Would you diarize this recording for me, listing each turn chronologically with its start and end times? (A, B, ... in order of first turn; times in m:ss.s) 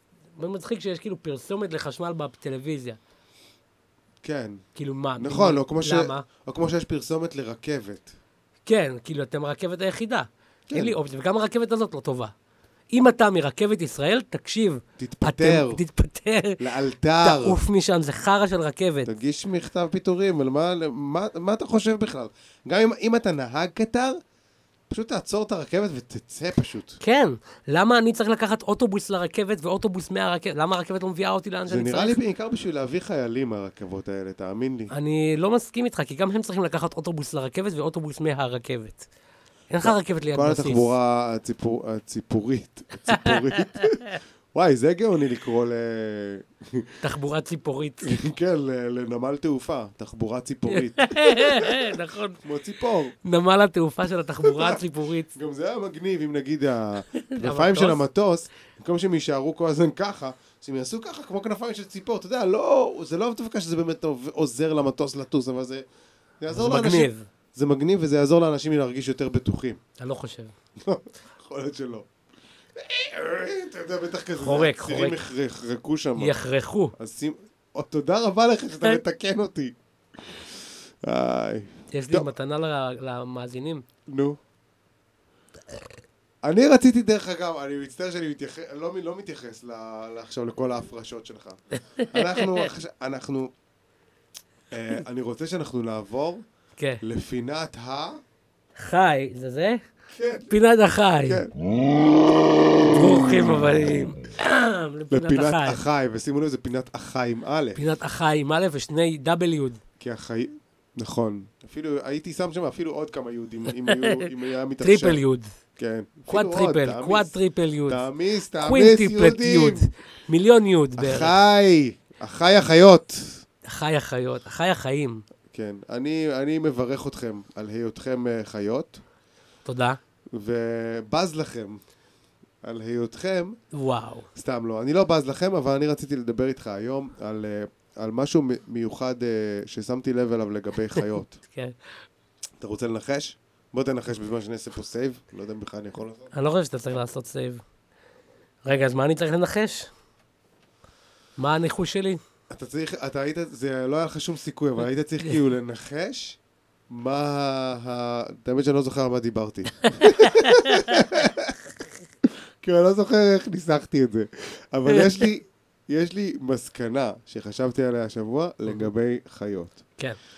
0:00.4-0:03.0 A
0:04.2-0:04.6 B
0:04.8-0:06.2 A
0:05.2-0:08.1 B
0:08.6-0:12.3 A
0:10.7-0:11.0 B
0:12.9-0:16.6 A
0:15.0-0:15.8 B
0:16.6-0:17.6 B
0:17.2-0:19.1 A
0:19.0-0:24.2 B
0:24.9-0:27.0 B
0:27.0-0:32.2 A
0:31.7-0:34.9 B
0:34.9-0:39.0 A
0:39.7-0:40.9 A
0:39.8-0:47.0 B
0:43.1-0:43.9 A
0:47.0-0:48.1 A
0:48.0-0:53.1 B
0:50.7-0:52.4 A
0:53.2-0:55.3 A
0:54.4-0:54.8 B
0:55.3-1:05.8 B
0:57.2-0:58.0 A
1:06.4-1:09.8 B
1:06.5-1:07.3 A
1:10.0-1:10.5 A
1:10.8-1:12.0 B
1:12.8-1:16.3 B
1:14.4-1:15.2 A
1:16.2-1:16.9 A
1:17.0-1:19.7 B
1:21.0-1:22.3 B
1:21.9-1:23.8 A
1:24.1-1:24.4 B
1:26.4-1:33.5 B
1:32.0-1:32.7 A
1:34.7-1:36.4 B
1:37.0-1:38.2 B
1:38.8-1:39.8 A
1:40.1-1:40.6 B
1:40.5-1:41.4 A
1:41.2-1:41.5 B
1:42.8-1:45.8 A
1:45.1-1:47.8 B
1:47.8-1:49.8 A
1:50.0-1:55.2 B
1:53.8-1:54.2 A
1:54.8-1:55.5 A
1:55.8-1:57.3 B
1:56.3-1:58.0 A
1:57.9-1:59.9 B
1:58.6-2:01.3 A
2:01.0-2:03.4 B
2:03.7-2:05.2 A
2:05.5-2:09.0 B
2:09.6-2:10.0 A
2:10.3-2:11.8 B
2:12.6-2:13.6 B
2:13.7-2:14.2 A
2:14.3-2:21.4 B
2:21.0-2:21.8 A
2:22.6-2:26.3 B
2:26.3-2:27.6 A
2:28.6-2:29.9 A
2:31.4-2:32.2 A
2:32.5-2:36.4 B
2:36.9-2:41.6 B
2:40.0-2:40.9 A
2:42.6-2:49.8 B
2:44.9-2:45.3 A